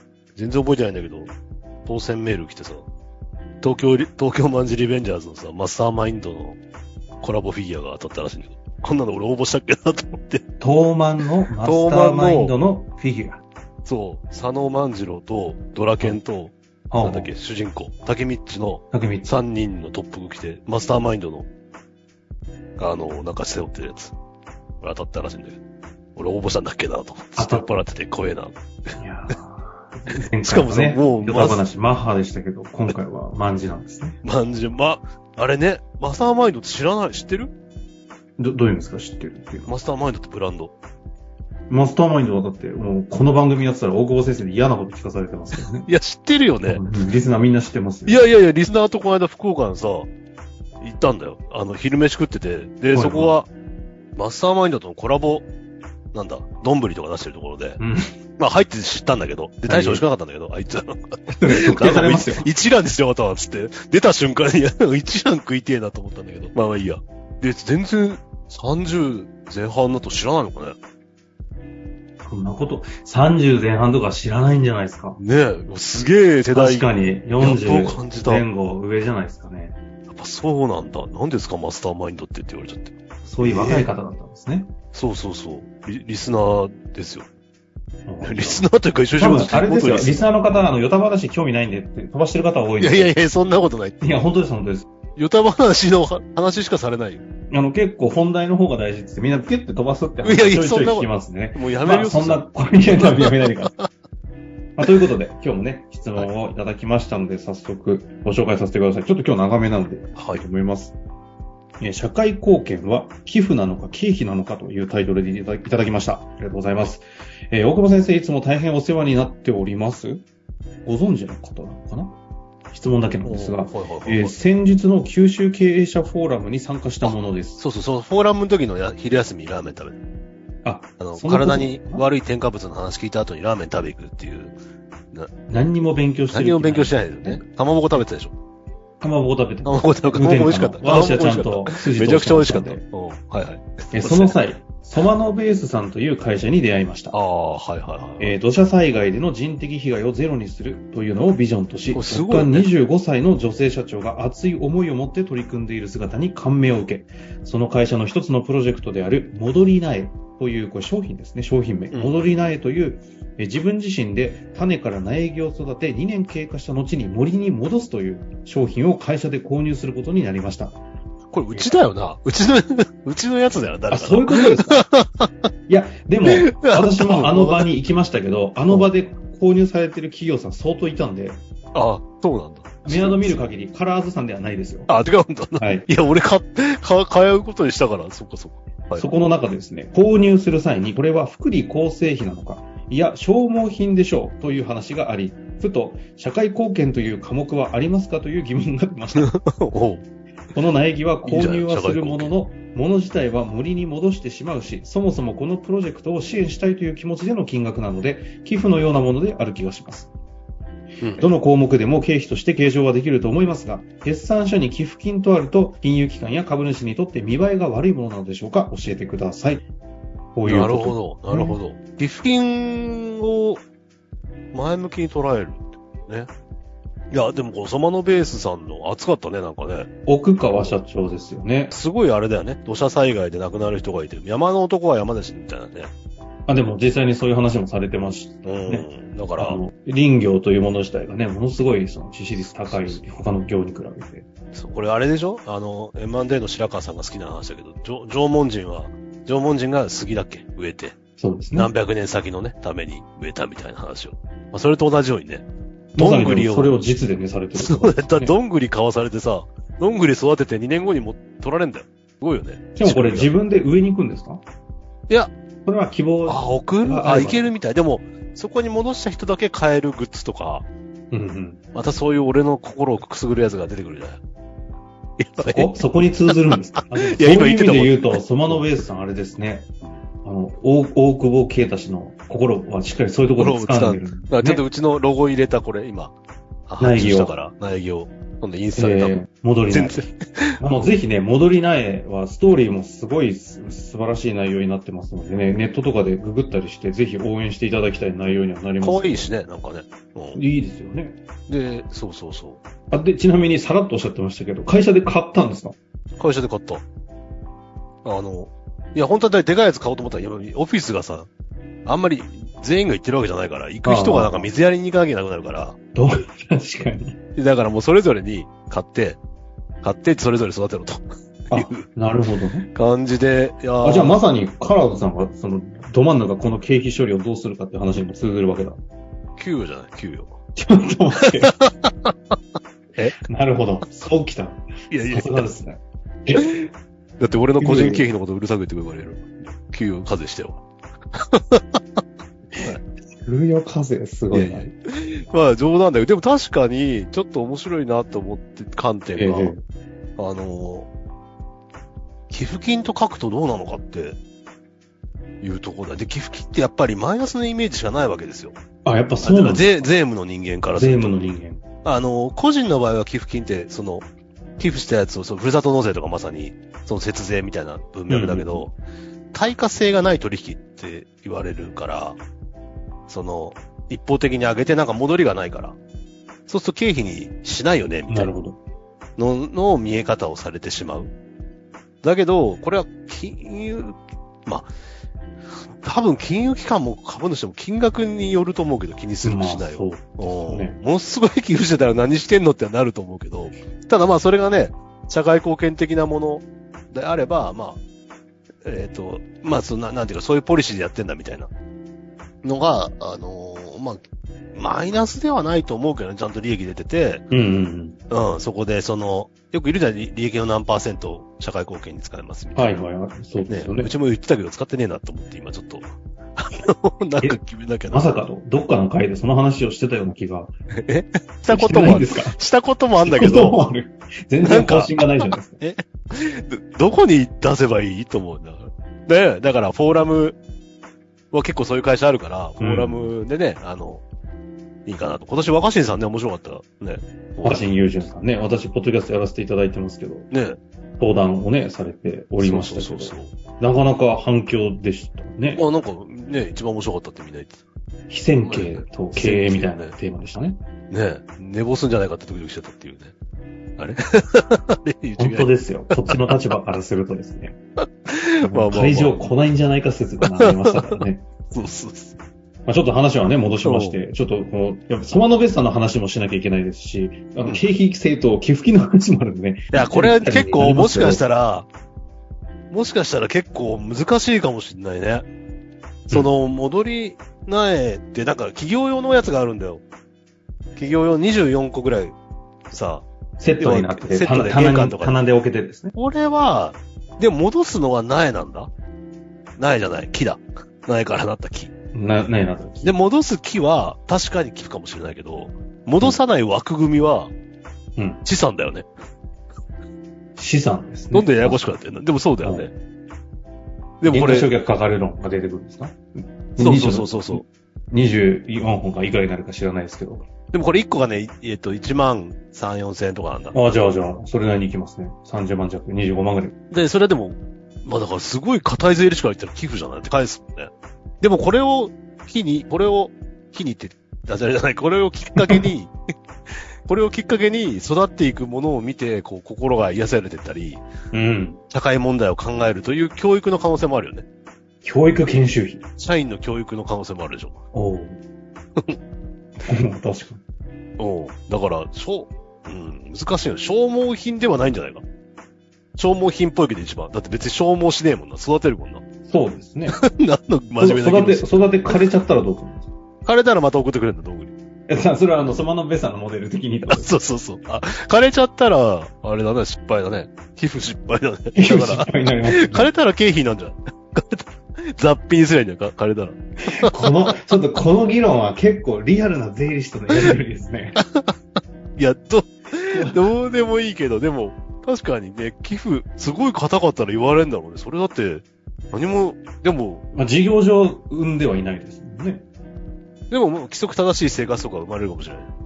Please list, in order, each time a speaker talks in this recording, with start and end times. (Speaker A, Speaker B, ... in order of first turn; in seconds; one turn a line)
Speaker A: 0.3-1.3
Speaker A: 1.9-2.9
Speaker A: 3.6-6.6
Speaker A: 7.2-10.4
Speaker B: 10.6-13.4
Speaker A: 11.6-12.5
Speaker A: 13.8-21.5
Speaker B: 16.9-17.3
Speaker B: 18.9-19.4
Speaker A: 22.8-24.1
Speaker A: 24.8-25.6
Speaker A: 26.1-28.9
Speaker B: 27.4-27.7
Speaker B: 29.0-34.2
Speaker A: 30.4-31.6
Speaker A: 34.2-37.5
Speaker B: 38.4-39.7
Speaker A: 39.6-40.7
Speaker B: 41.7-45.9
Speaker A: 45.5-46.8
Speaker B: 46.6-48.3
Speaker A: 48.1-50.1
Speaker A: 50.8-53.5
Speaker B: 52.9-53.4
Speaker A: 54.1-55.5
Speaker A: 56.1-57.8
Speaker B: 57.8-58.1
Speaker A: 58.4-70.8
Speaker B: 59.6-60.0
Speaker B: 61.3-62.5
Speaker B: 72.2-75.2
Speaker A: 75.2-78.5
Speaker B: 76.5-79.8
Speaker A: 80.1-83.9
Speaker B: 83.2-84.7
Speaker A: 84.9-87.3
Speaker B: 88.1-93.2
Speaker A: 88.2-90.3
Speaker A: 92.8-94.3
Speaker B: 94.0-94.9
Speaker A: 95.2-97.2
Speaker B: 97.5-103.7
Speaker A: 100.2-103.9
Speaker B: 104.8-111.0
Speaker A: 110.1-110.4
Speaker B: 111.8-120.2
Speaker B: 120.8-122.2
Speaker B: 122.7-127.6
Speaker A: 123.2-124.4
Speaker A: 127.0-130.0
Speaker B: 130.6-132.0
Speaker A: 131.0-134.6
Speaker B: 135.5-137.4
Speaker A: 136.3-138.3
Speaker B: 139.0-142.8
Speaker A: 139.6-144.4
Speaker B: 143.9-147.2
Speaker A: 147.1-148.3
Speaker B: 148.2-170.8
Speaker A: 151.9-152.7
Speaker A: 161.9-162.5
Speaker A: 171.3-175.3
Speaker B: 173.9-174.8
Speaker B: 175.7-181.4
Speaker A: 176.2-177.7
Speaker A: 181.7-183.5
Speaker B: 182.8-184.9
Speaker A: 184.9-189.1
Speaker B: 185.6-185.9
Speaker B: 189.0-199.3
Speaker A: 199.2-200.0
Speaker B: 200.5-210.1
Speaker A: 201.2-202.3
Speaker A: 211.0-211.3
Speaker B: 211.2-219.7
Speaker B: 220.3-221.6
Speaker A: 220.4-223.6
Speaker A: 224.5-226.3
Speaker A: 227.1-229.9
Speaker B: 230.1-231.7
Speaker A: 231.7-235.9
Speaker B: 236.5-238.9
Speaker A: 238.4-239.6
Speaker B: 239.4-244.2
Speaker A: 242.5-243.0
Speaker A: 244.5-250.9
Speaker B: 251.2-251.7
Speaker A: 251.5-255.4
Speaker B: 255.9-258.3
Speaker A: 255.9-256.8
Speaker A: 257.5-263.3
Speaker B: 262.8-264.4
Speaker B: 265.6-267.5
Speaker A: 266.2-270.7
Speaker B: 271.1-271.6
Speaker A: 271.7-274.2
Speaker A: 275.2-275.7
Speaker B: 275.4-279.7
Speaker A: 276.3-278.8
Speaker B: 280.2-284.6
Speaker A: 283.4-286.1
Speaker A: 286.7-289.2
Speaker B: 286.8-287.3
Speaker B: 288.8-290.1
Speaker A: 289.7-290.6
Speaker B: 290.6-299.3
Speaker A: 298.8-300.4
Speaker B: 300.3-301.2
Speaker A: 301.5-302.6
Speaker B: 302.9-305.8
Speaker A: 306.2-306.8
Speaker A: 308.0-311.3
Speaker A: 311.8-315.8
Speaker B: 313.8-314.5
Speaker B: 315.9-317.2
Speaker A: 317.4-319.2
Speaker A: 319.8-321.9
Speaker B: 321.5-322.7
Speaker A: 322.7-324.2
Speaker B: 323.8-328.8
Speaker A: 329.4-330.3
Speaker B: 330.6-331.5
Speaker A: 331.4-332.3
Speaker B: 333.2-336.6
Speaker A: 334.9-335.5
Speaker A: 337.2-340.6
Speaker B: 337.6-338.0
Speaker A: 341.1-341.8
Speaker B: 342.5-344.6
Speaker A: 344.3-349.5
Speaker B: 349.1-349.6
Speaker A: 350.2-350.9
Speaker A: 352.3-354.2
Speaker A: 355.4-358.6
Speaker B: 358.8-359.9
Speaker A: 359.2-361.2
Speaker B: 360.7-361.6
Speaker A: 361.8-364.1
Speaker A: 364.6-368.8
Speaker B: 368.1-368.7
Speaker A: 369.3-372.2
Speaker A: 373.1-375.8
Speaker A: 376.5-378.3
Speaker B: 378.1-378.6
Speaker A: 379.2-381.1
Speaker A: 382.0-384.7
Speaker A: 385.8-397.8
Speaker B: 389.2-390.8
Speaker A: 398.6-401.5
Speaker A: 402.4-404.0
Speaker A: 404.5-407.3
Speaker B: 407.3-408.0
Speaker A: 408.1-412.8
Speaker B: 412.5-413.9
Speaker A: 413.5-418.2
Speaker B: 417.9-420.5
Speaker A: 420.8-423.6
Speaker B: 421.5-422.3
Speaker B: 423.0-425.6
Speaker A: 424.4-430.4
Speaker A: 431.3-434.0
Speaker B: 432.6-433.1
Speaker A: 434.9-437.6
Speaker B: 437.4-440.3
Speaker A: 440.3-440.6
Speaker B: 441.0-445.6
Speaker A: 442.4-443.3
Speaker A: 445.5-447.6
Speaker B: 448.1-450.6
Speaker A: 448.4-449.9
Speaker A: 450.9-453.1
Speaker A: 453.8-456.3
Speaker B: 455.2-457.6
Speaker A: 458.1-459.2
Speaker B: 458.4-461.3
Speaker A: 460.3-461.0
Speaker A: 461.5-462.1
Speaker B: 462.6-471.2
Speaker A: 463.6-464.0
Speaker A: 469.7-471.7
Speaker A: 472.7-475.3
Speaker A: 476.1-479.8
Speaker A: 480.8-482.1
Speaker A: 482.7-485.2
Speaker B: 483.4-485.9
Speaker A: 485.9-488.7
Speaker A: 489.6-491.7
Speaker B: 491.9-492.9
Speaker A: 492.8-497.3
Speaker B: 497.9-498.2
Speaker A: 498.2-498.9
Speaker B: 500.4-501.6
Speaker A: 501.1-502.7
Speaker B: 502.4-502.7
Speaker A: 504.0-504.5
Speaker B: 504.0-510.3
Speaker A: 506.6-507.4
Speaker A: 510.5-513.5
Speaker B: 513.5-516.5
Speaker A: 516.7-525.9
Speaker A: 526.9-530.8
Speaker B: 531.1-531.6
Speaker A: 531.7-534.2
Speaker B: 534.8-535.8
Speaker A: 536.0-537.6
Speaker B: 537.7-538.2
Speaker B: 539.7-540.4
Speaker A: 541.0-545.0
Speaker A: 546.0-549.0
Speaker B: 549.2-550.0
Speaker A: 549.9-552.0
Speaker B: 550.8-552.9
Speaker A: 553.2-554.5
Speaker B: 554.9-557.1
Speaker A: 556.9-567.3
Speaker B: 561.5-562.9
Speaker B: 566.7-571.0
Speaker A: 572.0-580.0
Speaker B: 572.9-573.2
Speaker B: 580.1-582.5
Speaker A: 583.3-585.5